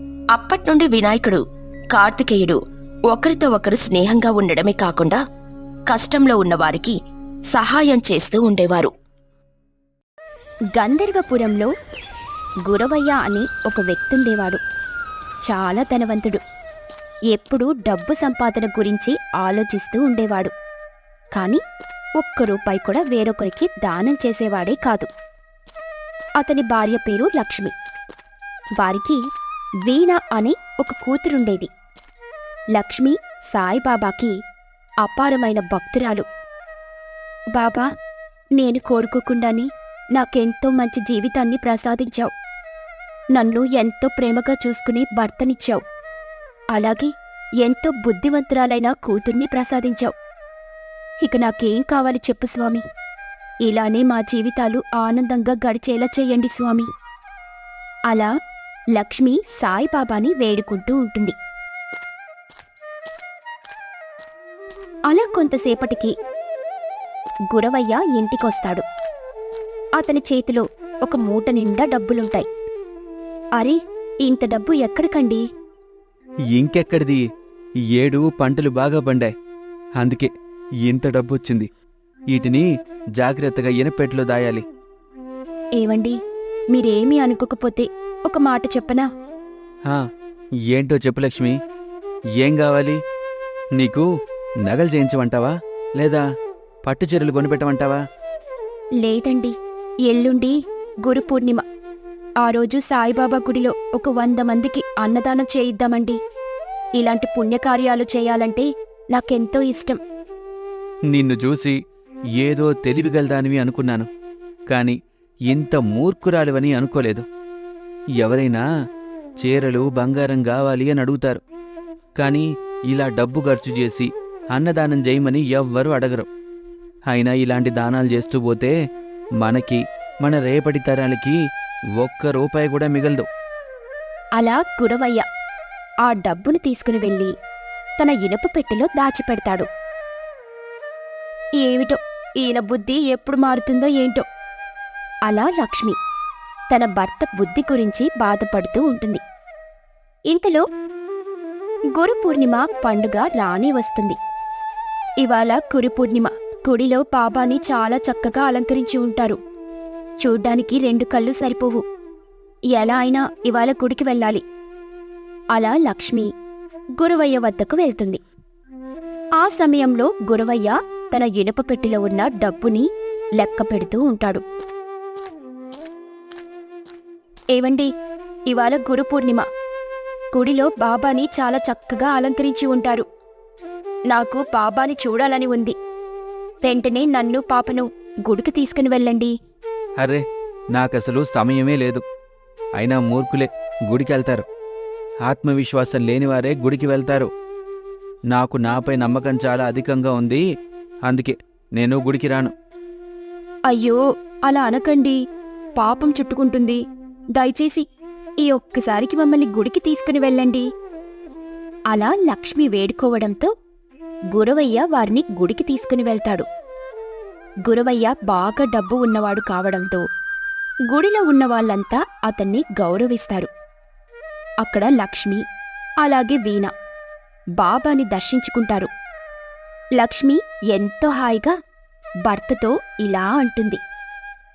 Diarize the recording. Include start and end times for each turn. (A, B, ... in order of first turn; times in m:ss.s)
0:00.3-0:02.6 A
0:03.1-0:05.2 A
0:05.9-0:07.0 A
0:07.5-0:08.9 A
0:10.8-0:11.7 B
0:12.7-0:14.6 B
0:15.5-0:16.4 B
0:17.3-0:20.5 B
0:22.2-0:25.1 B
0:26.4-0:27.7 B
0:28.8-0:29.2 B
0:29.9-0:31.7 B
0:32.8-0:34.3 B
0:35.0-0:36.3 B
0:37.6-0:37.9 B
0:38.6-0:42.3 B
0:43.3-0:45.8 B
0:46.7-0:47.1 B
0:47.6-0:50.1 B
0:51.2-0:52.8 B
0:53.6-0:56.9 B
0:59.0-1:01.4 B
1:05.1-1:06.1 B
1:07.5-1:08.8 B
1:10.0-1:12.5 B
1:13.6-1:15.4 B
1:16.5-1:17.2 C
1:17.9-1:19.3 C
1:20.0-1:20.3 C
1:20.8-1:21.7 C
1:22.3-1:22.7 C
1:23.2-1:24.6 C
1:25.8-1:26.2 B
1:26.7-1:29.1 B
1:30.7-1:31.6 C
1:32.4-1:33.0 C
1:33.8-1:34.1 C
1:34.6-1:36.2 C
1:36.8-1:38.0 C
1:39.0-1:39.5 B
1:40.1-1:41.6 B
1:42.4-1:46.2 B
1:47.0-1:50.0 B
1:51.1-1:51.8 C
1:52.4-1:54.1 C
1:54.7-1:55.0 C
1:55.5-1:57.3 C
1:58.2-1:58.6 C
1:59.4-2:01.4 C
2:02.2-2:06.3 C
2:07.1-2:08.8 C
2:09.4-2:11.4 C
2:12.0-2:13.3 C
2:14.4-2:15.2 B
2:16.1-2:17.3 B
2:18.0-2:19.7 B
2:21.6-2:24.2 B
2:25.3-2:26.0 B
2:26.7-2:29.2 B
2:30.3-2:30.6 B
2:32.0-2:34.2 B
2:35.2-2:39.4 B
2:40.2-2:41.8 B
2:42.7-2:44.4 B
2:45.5-2:46.3 B
2:47.0-2:48.2 B
2:49.4-2:52.9 B
2:53.4-2:54.4 B
2:57.5-2:57.9 B
2:58.5-2:59.4 B
3:00.3-3:03.0 B
3:04.1-3:05.8 B
3:06.6-3:09.3 B
3:10.7-3:12.0 C
3:12.8-3:14.4 C
3:15.2-3:17.3 C
3:18.3-3:20.4 C
3:21.0-3:22.5 C
3:23.7-3:25.2 B
3:25.8-3:26.8 B
3:27.4-3:27.8 B
3:28.4-3:30.7 B
3:31.9-3:33.5 B
3:34.3-3:36.5 B
3:37.7-3:40.0 B
3:40.9-3:43.5 B
3:44.6-3:45.4 B
3:46.0-3:46.7 B
3:47.6-3:48.9 B
3:50.0-3:51.5 B
3:52.3-3:53.8 B